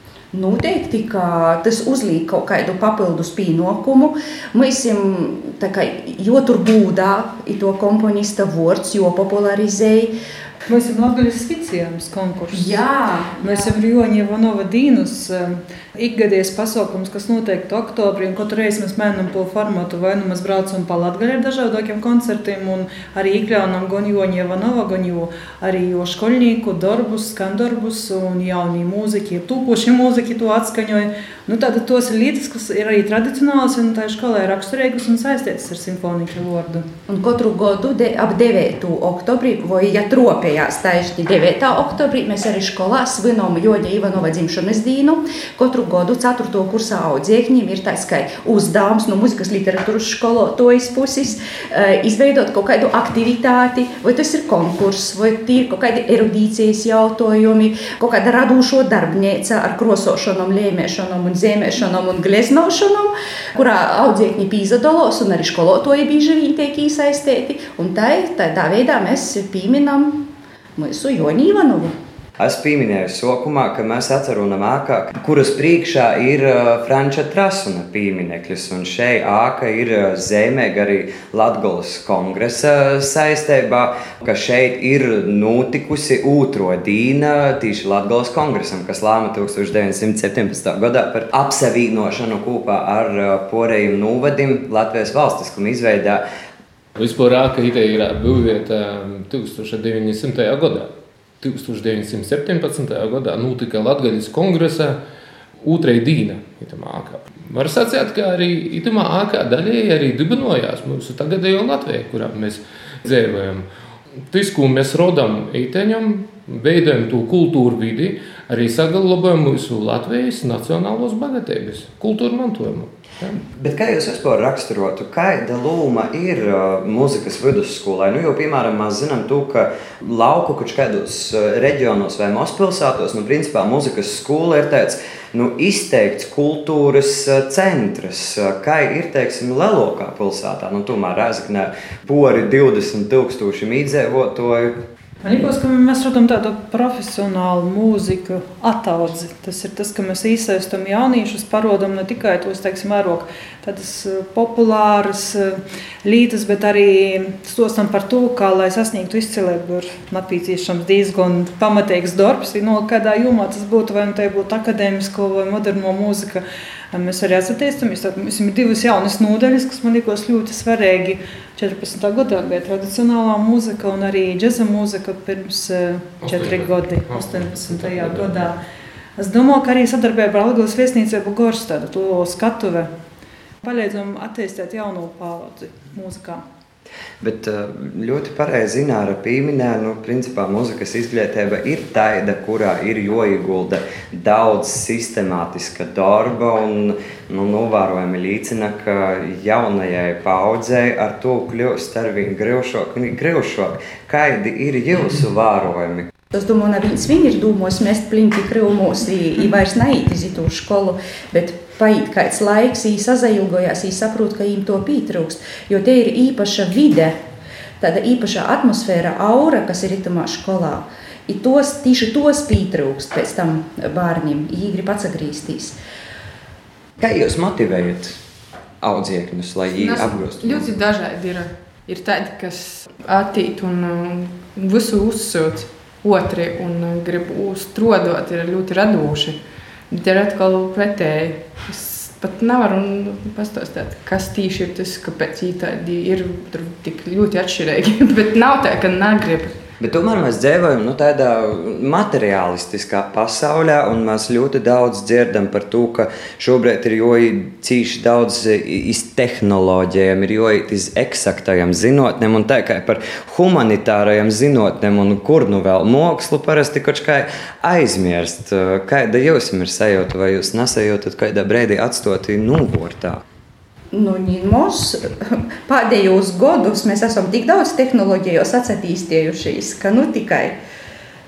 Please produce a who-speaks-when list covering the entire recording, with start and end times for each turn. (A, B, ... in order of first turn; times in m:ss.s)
0:00.3-0:10.1 A
0:10.7-0:12.8 B
0:12.5-0:13.7 A
0:13.4-0:36.8 B
0:37.1-1:10.2 A
1:10.8-1:11.9 A
1:12.4-1:36.2 C
1:37.0-1:45.0 D
1:45.6-1:53.6 D
1:54.3-2:03.3 D
2:03.4-2:24.8 C
2:25.2-2:58.6 B
2:56.2-2:58.5 D
2:59.2-3:02.9 B
3:03.6-3:06.4 B
3:07.2-3:26.1 C
3:26.3-3:37.2 A
3:37.8-3:45.8 A
3:47.0-3:48.2 C
3:48.8-3:50.7 C
3:49.8-3:59.4 E
3:59.9-4:09.5 E
4:09.8-4:33.2 C
4:33.9-4:40.5 A